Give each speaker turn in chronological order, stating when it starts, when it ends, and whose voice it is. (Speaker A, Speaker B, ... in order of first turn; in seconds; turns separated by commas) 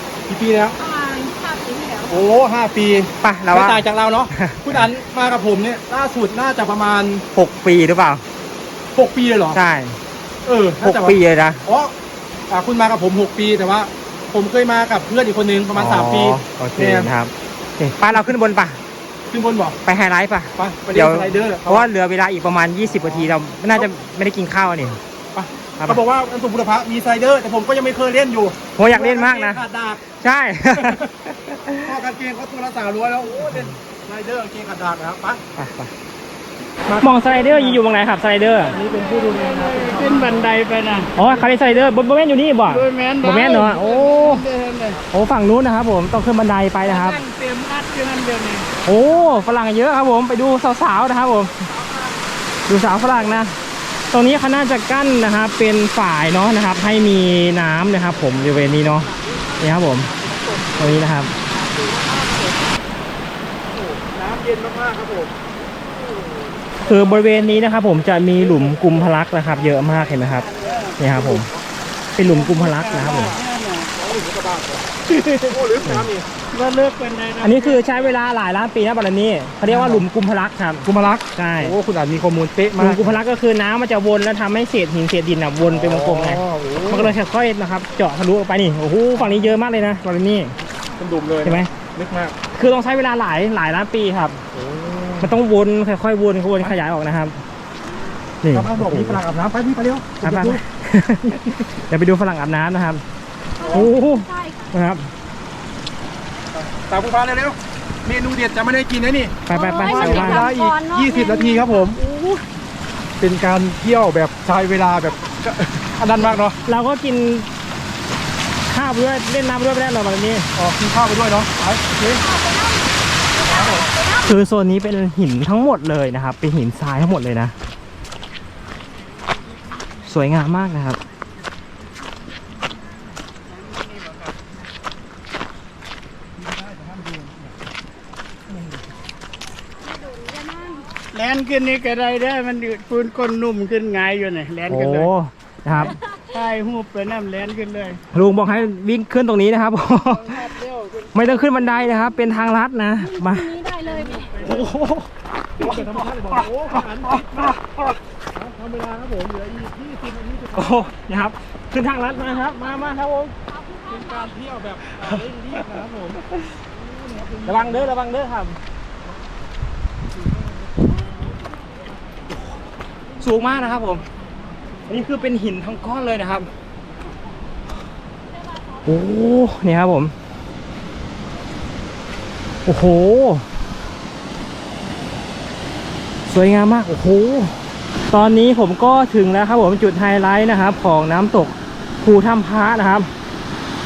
Speaker A: 0.3-0.8, Speaker B: 0.8-2.2, Speaker A: 2.1-7.2, Speaker C: 3.2-4.9, Speaker C: 7.3-8.2, Speaker A: 8.9-9.6, Speaker C: 9.5-10.0, Speaker A: 10.4-11.9, Speaker C: 10.8-11.6, Speaker A: 12.5-17.1, Speaker C: 15.7-18.8, Speaker A: 19.3-19.8, Speaker C: 19.8-25.0, Speaker A: 20.6-21.9, Speaker A: 22.9-23.9, Speaker A: 25.3-30.1, Speaker C: 25.8-26.0, Speaker C: 28.8-29.6, Speaker C: 30.2-31.9, Speaker A: 30.7-31.0, Speaker A: 31.8-35.4, Speaker C: 35.5-35.9, Speaker A: 36.9-37.8, Speaker C: 37.0-38.8, Speaker A: 38.6-40.5, Speaker D: 38.7-41.1, Speaker C: 41.1-44.5, Speaker D: 42.7-45.0, Speaker C: 45.1-47.2, Speaker D: 46.8-48.7, Speaker C: 48.8-51.6, Speaker C: 52.7-53.6, Speaker C: 54.1-60.1, Speaker A: 59.8-60.9, Speaker C: 60.8-61.3, Speaker D: 61.7-62.5, Speaker A: 63.7-65.4, Speaker A: 66.8-67.6, Speaker C: 66.8-71.5, Speaker A: 68.3-71.7, Speaker D: 70.3-71.0, Speaker C: 72.2-73.4, Speaker D: 72.2-73.9, Speaker A: 72.9-73.4, Speaker A: 73.9-76.3, Speaker C: 75.1-76.1, Speaker D: 76.5-78.0, Speaker C: 77.4-81.8, Speaker A: 79.7-80.0, Speaker A: 80.8-83.2, Speaker C: 82.8-90.5, Speaker A: 85.6-87.2, Speaker A: 89.1-89.6, Speaker A: 91.0-92.4, Speaker C: 91.4-91.7, Speaker C: 92.5-94.4, Speaker A: 94.5-95.3, Speaker C: 95.2-97.4, Speaker C: 98.4-99.2, Speaker A: 98.5-100.6, Speaker C: 100.2-103.0, Speaker B: 103.5-104.7, Speaker A: 103.6-103.9, Speaker C: 103.7-105.1, Speaker A: 106.5-112.0, Speaker C: 109.5-110.5, Speaker B: 109.5-112.4, Speaker A: 113.2-116.6, Speaker C: 116.6-117.5, Speaker C: 118.7-120.5, Speaker A: 120.5-122.2, Speaker B: 122.0-124.3, Speaker A: 123.5-123.9, Speaker C: 124.2-127.5, Speaker C: 130.0-131.0, Speaker D: 133.4-134.4, Speaker A: 136.3-137.6, Speaker B: 139.9-140.9, Speaker D: 141.1-145.1, Speaker C: 144.7-146.0, Speaker D: 146.3-148.0, Speaker C: 148.1-150.4, Speaker D: 150.0-151.8, Speaker C: 151.1-153.6, Speaker B: 153.0-154.4, Speaker C: 154.4-155.1, Speaker A: 155.6-157.6, Speaker C: 155.6-157.7, Speaker A: 158.3-160.9, Speaker C: 160.6-163.3, Speaker B: 163.5-164.3, Speaker A: 163.9-167.9, Speaker C: 167.4-168.6, Speaker A: 170.1-171.4, Speaker C: 173.2-174.1, Speaker C: 174.9-176.5, Speaker C: 178.8-180.1, Speaker C: 182.6-183.5, Speaker C: 186.3-187.6, Speaker C: 188.1-193.1